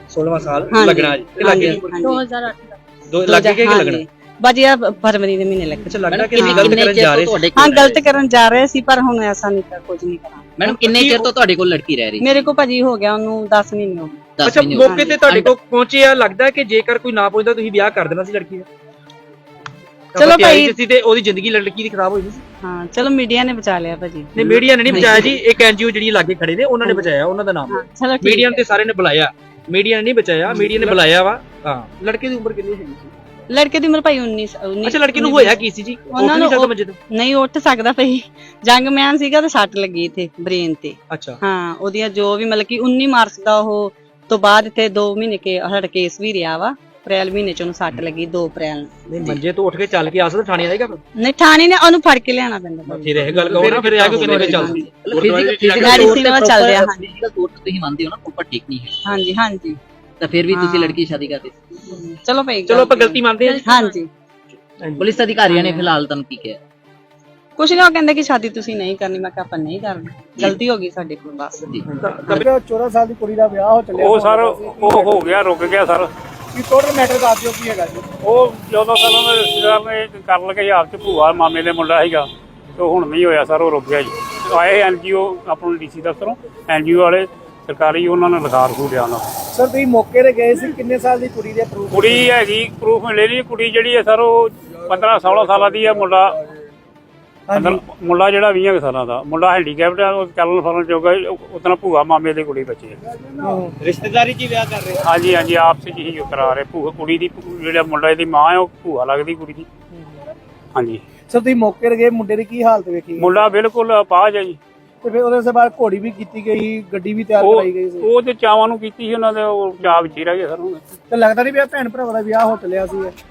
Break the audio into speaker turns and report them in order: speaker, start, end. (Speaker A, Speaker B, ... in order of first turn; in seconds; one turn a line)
Speaker A: 0.1-2.1
Speaker B: 0.7-2.2
Speaker A: 3.1-4.0
Speaker B: 3.2-6.9
Speaker A: 5.9-7.5
Speaker C: 6.1-8.0
Speaker B: 7.5-10.5
Speaker C: 10.6-12.4
Speaker A: 10.7-11.3
Speaker B: 12.2-15.2
Speaker C: 14.4-15.5
Speaker A: 14.4-18.7
Speaker A: 20.1-22.4
Speaker B: 20.1-20.8
Speaker B: 22.6-25.3
Speaker A: 24.4-33.1
Speaker B: 27.7-28.6
Speaker B: 30.5-30.9
Speaker B: 33.5-48.9
Speaker A: 34.8-37.0
Speaker A: 41.1-41.4
Speaker A: 49.1-51.0
Speaker B: 51.2-53.1
Speaker A: 52.9-56.2
Speaker C: 53.3-58.9
Speaker B: 54.0-54.9
Speaker B: 55.8-57.0
Speaker B: 59.0-59.8
Speaker C: 60.2-61.5
Speaker B: 60.5-61.0
Speaker B: 61.8-64.1
Speaker A: 62.7-63.7
Speaker C: 65.0-66.6
Speaker B: 65.5-65.9
Speaker B: 67.6-71.7
Speaker A: 72.0-72.5
Speaker D: 72.2-75.2
Speaker E: 74.0-76.1
Speaker D: 76.5-78.0
Speaker E: 78.2-89.3
Speaker D: 89.5-92.3
Speaker E: 91.9-96.4
Speaker D: 97.5-97.8
Speaker E: 97.5-103.0
Speaker D: 103.4-103.7
Speaker E: 105.0-109.7
Speaker E: 110.7-111.0
Speaker D: 111.3-113.4
Speaker E: 113.2-114.6
Speaker D: 115.0-118.1
Speaker E: 117.4-120.8
Speaker D: 121.1-123.1